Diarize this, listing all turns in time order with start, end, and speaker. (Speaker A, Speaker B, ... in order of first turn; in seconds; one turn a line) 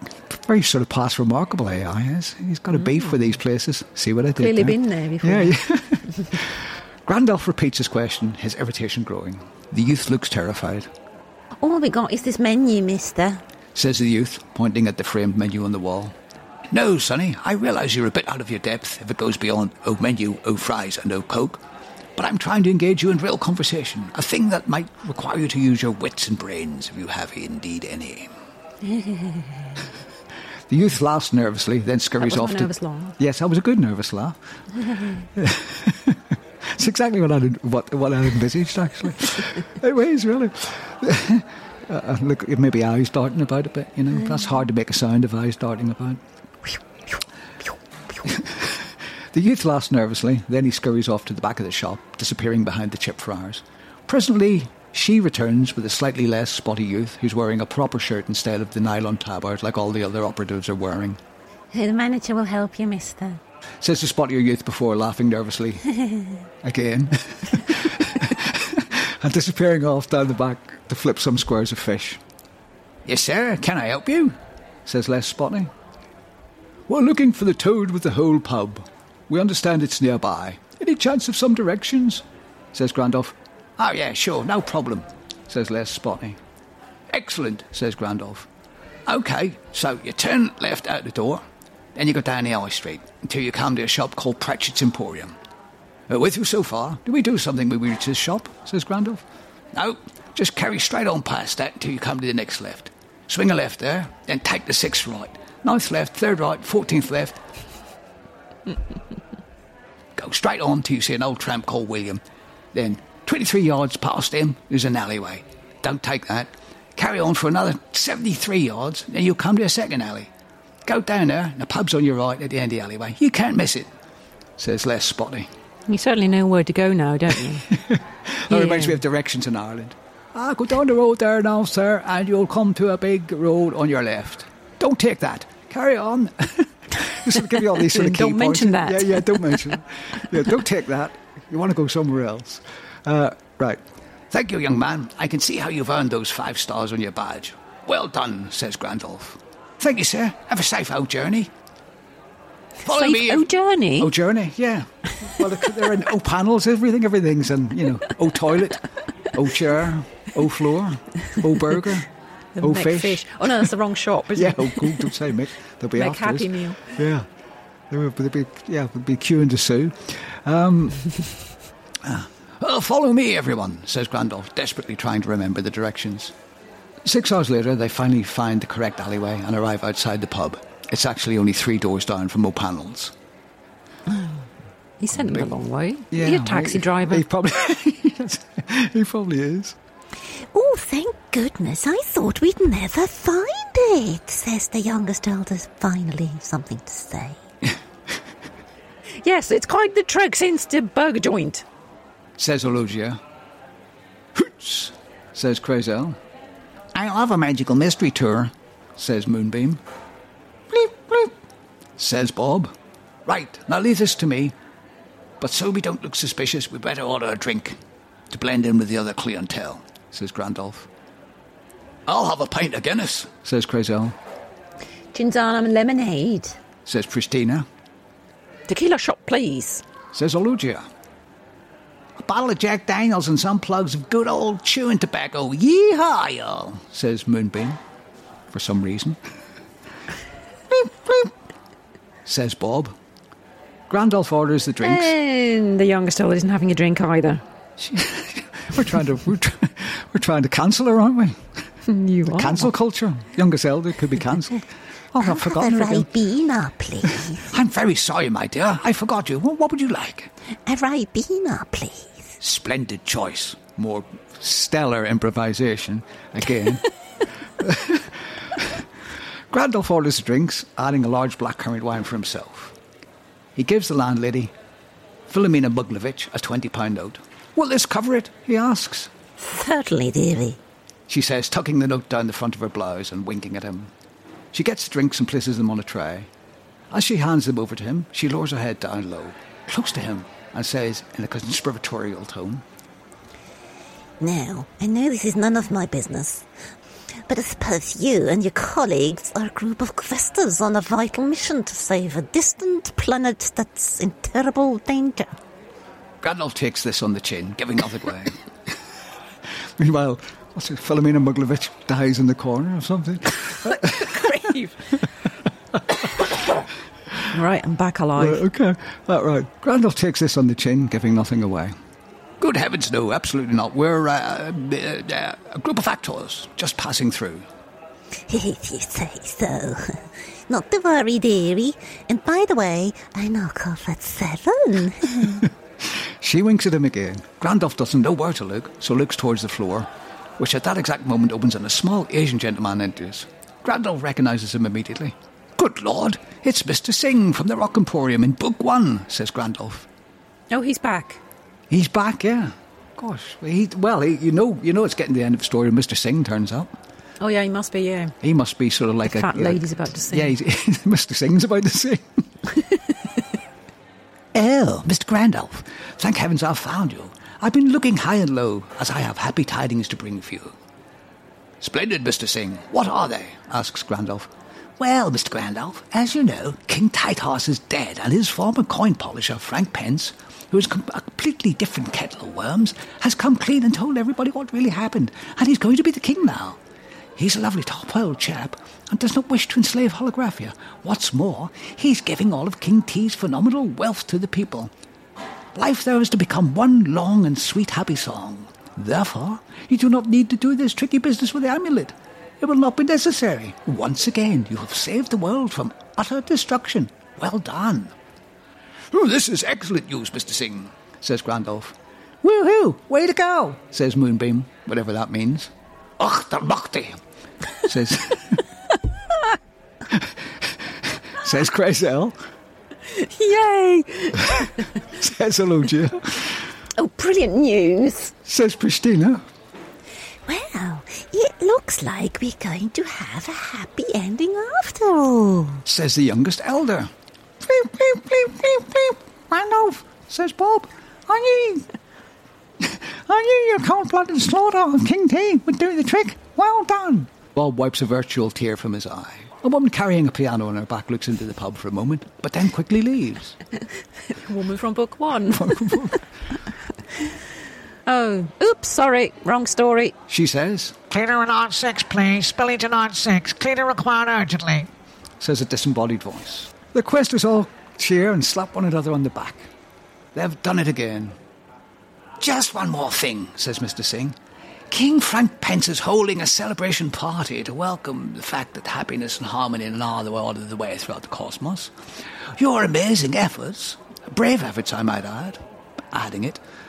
Speaker A: 0.3-10.9
Speaker B: 4.4-5.6
Speaker B: 11.6-13.4
Speaker C: 11.8-13.0
Speaker A: 13.7-16.1
Speaker A: 16.7-21.6
Speaker A: 22.1-28.3
Speaker B: 28.9-29.5
Speaker A: 30.7-34.4
Speaker B: 32.2-33.2
Speaker A: 35.0-46.2
Speaker A: 48.2-61.2
Speaker C: 61.7-63.4
Speaker A: 63.8-65.9
Speaker A: 66.6-72.2
Speaker A: 73.0-75.7
Speaker A: 76.9-86.4
Speaker A: 87.1-88.5
Speaker A: 89.1-91.4
Speaker A: 91.9-95.3
Speaker A: 96.1-107.4
Speaker A: 110.2-112.2
Speaker A: 112.7-120.3
Speaker A: 120.8-123.9
Speaker A: 124.6-125.5
Speaker B: 125.9-127.7
Speaker A: 127.7-151.5
Speaker B: 128.5-129.0
Speaker B: 137.5-139.6
Speaker A: 152.8-162.1
Speaker B: 152.8-154.1
Speaker B: 162.6-165.1
Speaker A: 162.6-163.7
Speaker A: 164.3-167.2
Speaker B: 165.9-166.8
Speaker A: 167.9-171.1
Speaker A: 172.0-176.3
Speaker A: 177.0-183.1
Speaker B: 184.1-184.3
Speaker B: 185.0-187.2
Speaker A: 186.1-189.8
Speaker C: 190.4-197.4
Speaker B: 199.2-201.6
Speaker A: 202.4-203.2
Speaker A: 204.3-206.2
Speaker A: 206.9-209.8
Speaker A: 210.7-211.3
Speaker A: 212.0-212.7
Speaker A: 213.2-214.6
Speaker A: 215.4-217.8
Speaker A: 218.3-220.9
Speaker A: 222.1-224.2
Speaker B: 225.1-226.6
Speaker A: 226.8-227.7
Speaker B: 228.7-229.8
Speaker A: 230.1-230.8
Speaker A: 232.2-237.8
Speaker A: 238.5-239.2
Speaker A: 240.7-241.3
Speaker A: 242.2-242.9
Speaker A: 243.9-245.1
Speaker B: 244.8-247.4
Speaker A: 247.8-251.5
Speaker B: 251.8-252.7
Speaker A: 252.3-256.1
Speaker C: 255.2-257.4
Speaker A: 257.3-260.3
Speaker C: 260.6-262.3
Speaker A: 262.4-266.8
Speaker A: 267.6-268.8
Speaker A: 269.5-272.7
Speaker A: 273.5-274.5
Speaker A: 275.3-279.1
Speaker C: 279.4-280.6
Speaker A: 281.1-283.9
Speaker A: 284.5-286.3
Speaker A: 286.9-292.6
Speaker C: 294.2-296.5
Speaker C: 297.3-305.3
Speaker A: 306.2-308.4
Speaker A: 309.8-314.5
Speaker B: 314.0-314.7
Speaker A: 315.7-316.1
Speaker B: 317.3-318.4
Speaker A: 318.2-321.7
Speaker A: 322.4-327.4
Speaker C: 328.3-335.5
Speaker A: 335.4-349.9
Speaker B: 350.5-351.2
Speaker A: 351.7-356.7
Speaker B: 357.2-358.1
Speaker A: 358.2-362.2
Speaker B: 359.1-360.3
Speaker A: 364.3-370.5
Speaker A: 371.6-386.6
Speaker A: 387.1-394.7
Speaker A: 395.5-407.9
Speaker A: 408.9-417.0
Speaker A: 417.6-418.4
Speaker A: 419.9-422.2
Speaker B: 422.9-424.5
Speaker A: 424.3-426.4
Speaker B: 426.7-428.1
Speaker A: 428.2-429.2
Speaker C: 430.2-435.6
Speaker A: 435.6-436.9
Speaker A: 437.4-441.7
Speaker A: 442.6-453.4
Speaker B: 454.1-455.9
Speaker A: 455.3-456.0
Speaker B: 457.9-459.9
Speaker A: 460.1-460.8
Speaker D: 460.9-464.7
Speaker A: 465.2-469.5
Speaker A: 470.1-471.2
Speaker A: 472.2-474.2
Speaker A: 474.7-486.4